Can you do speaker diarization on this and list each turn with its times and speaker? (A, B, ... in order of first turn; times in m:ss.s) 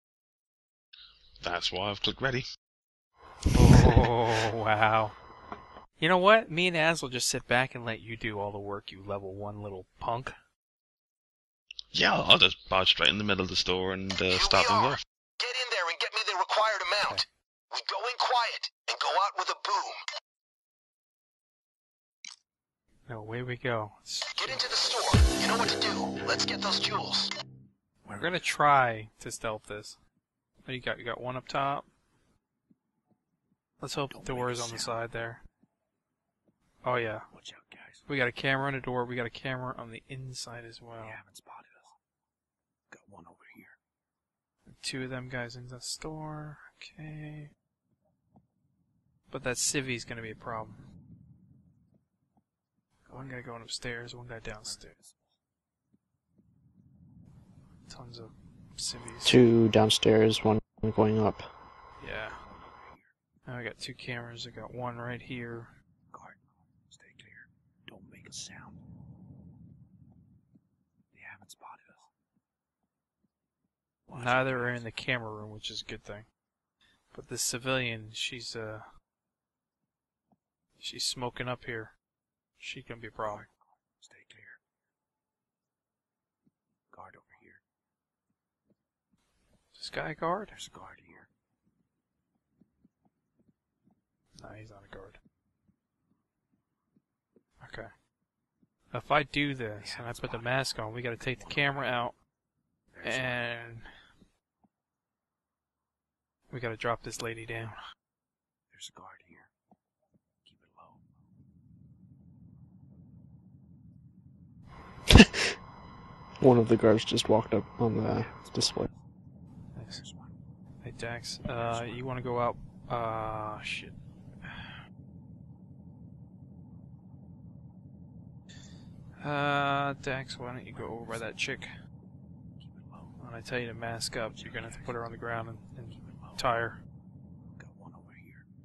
0:01.4-0:02.5 A
0:03.5-0:05.1 B
0:06.0-0:10.4 B
0:11.9-0:15.0 A
0:14.3-0:20.0 C
0:23.1-0:24.6 B
0:24.4-0:27.3 C
0:28.0-0:28.5 D
0:28.1-0:30.0 B
0:30.6-0:31.9 B
0:33.8-0:35.4 B
0:34.1-0:35.0 D
0:36.8-0:37.3 B
0:37.3-0:38.0 D
0:38.1-0:41.2 B
0:41.0-0:41.9 D
0:42.9-0:43.8 D
0:44.7-0:47.5 B
0:49.3-0:50.8 B
0:53.1-0:53.4 D
0:53.1-0:54.9 B
0:54.6-0:55.3 D
0:57.9-0:59.4 B
0:59.2-1:01.4 E
1:02.0-1:02.4 B
1:02.4-1:03.1 D
1:03.5-1:05.7 B
1:06.1-1:08.8 D
1:11.1-1:12.1 D
1:14.1-1:15.0 D
1:14.1-1:16.3 B
1:17.1-1:18.8 B
1:20.8-1:22.0 B
1:22.6-1:23.5 B
1:23.2-1:24.6 D
1:26.9-1:27.6 D
1:29.7-1:30.5 B
1:30.5-1:31.3 D
1:34.4-1:35.2 B
1:37.6-1:37.9 B
1:38.9-1:42.2 B
1:39.8-1:40.5 D
1:41.2-1:41.8 D
1:42.9-1:43.5 D
1:43.0-1:43.9 B
1:46.5-1:47.8 B
1:48.7-1:49.5 D
1:50.4-1:51.0 D
1:55.1-1:55.5 E
1:56.4-1:58.9 E
1:58.0-1:59.0 D
1:59.8-2:00.0 B
1:59.8-2:00.4 D
2:00.8-2:04.7 B
2:01.4-2:02.1 D
2:09.2-2:11.7 B
2:10.7-2:11.4 D
2:12.6-2:13.2 D
2:13.2-2:16.8 B
2:14.2-2:15.1 D
2:16.0-2:16.5 D
2:17.5-2:18.4 D